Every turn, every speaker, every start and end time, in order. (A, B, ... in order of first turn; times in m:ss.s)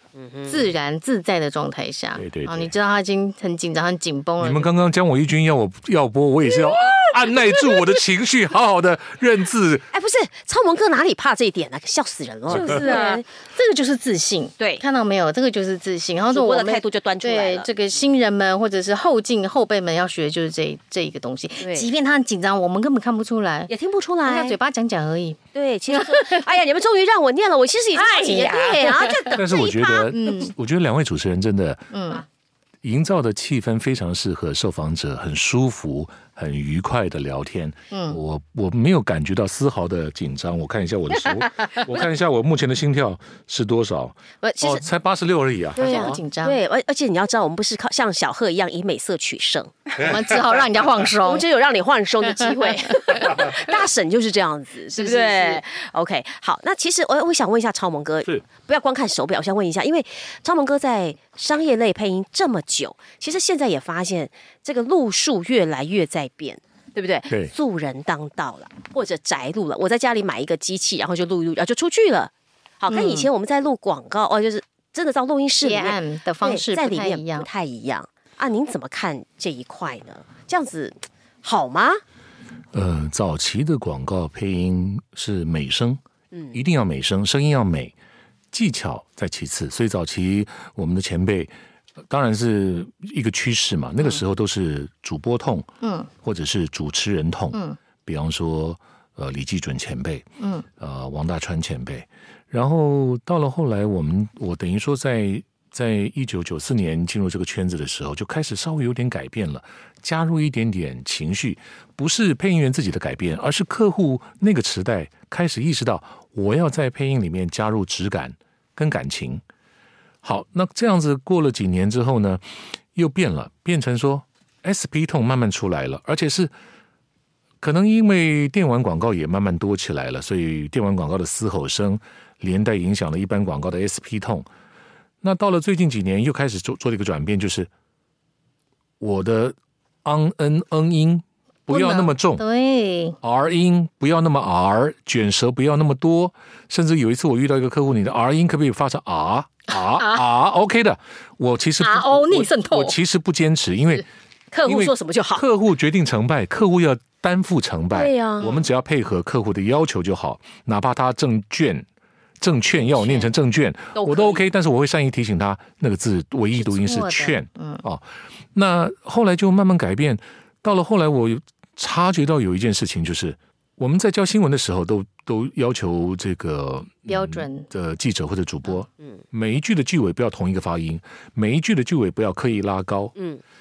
0:00.2-0:00.7 A
0:00.5-0:04.7 B
0:02.2-0:02.7 C
0:04.4-0:09.8 C
0:09.9-0:13.2 A
0:12.5-0:12.8 C
0:12.5-0:23.7 B
0:16.3-0:17.7 A
0:21.6-0:21.9 A
0:23.7-0:24.6 A
0:24.2-0:25.4 B
0:25.5-0:30.3 A
0:25.9-0:26.4 B
0:27.9-0:29.4 B
0:29.3-0:31.9 C
0:30.1-0:30.5 B
0:31.9-0:32.2 B
0:32.8-0:46.2 C
0:37.9-0:38.2 B
0:44.4-0:44.8 B
0:45.8-0:46.6 B
0:45.8-0:49.7 A
0:50.0-0:51.4 B
0:51.2-1:22.0 A
0:52.3-0:53.6 B
0:54.9-0:55.6 B
1:12.9-1:13.3 B
1:15.6-1:17.5 B
1:22.7-1:26.0 C
1:26.3-1:26.6 A
1:26.5-1:27.9 C
1:28.5-1:31.5 C
1:32.1-1:35.7 C
1:35.8-1:36.1 B
1:36.2-1:40.3 C
1:37.5-1:37.8 B
1:40.4-1:40.7 B
1:40.8-1:59.4 C
2:00.2-2:02.4 C
2:02.9-2:06.5 C
2:07.6-2:14.5 C
2:15.2-2:17.7 C
2:19.0-2:22.4 C
2:21.7-2:23.2 B
2:23.2-2:34.0 C
2:29.8-2:30.3 B
2:31.8-2:33.0 B
2:34.5-2:35.4 A
2:34.6-2:41.8 C
2:37.9-2:38.6 A
2:42.4-3:03.1 C
2:42.9-2:43.3 B
2:43.9-2:44.4 A
2:46.6-2:47.8 B
2:57.1-2:57.7 B
3:03.2-3:03.4 A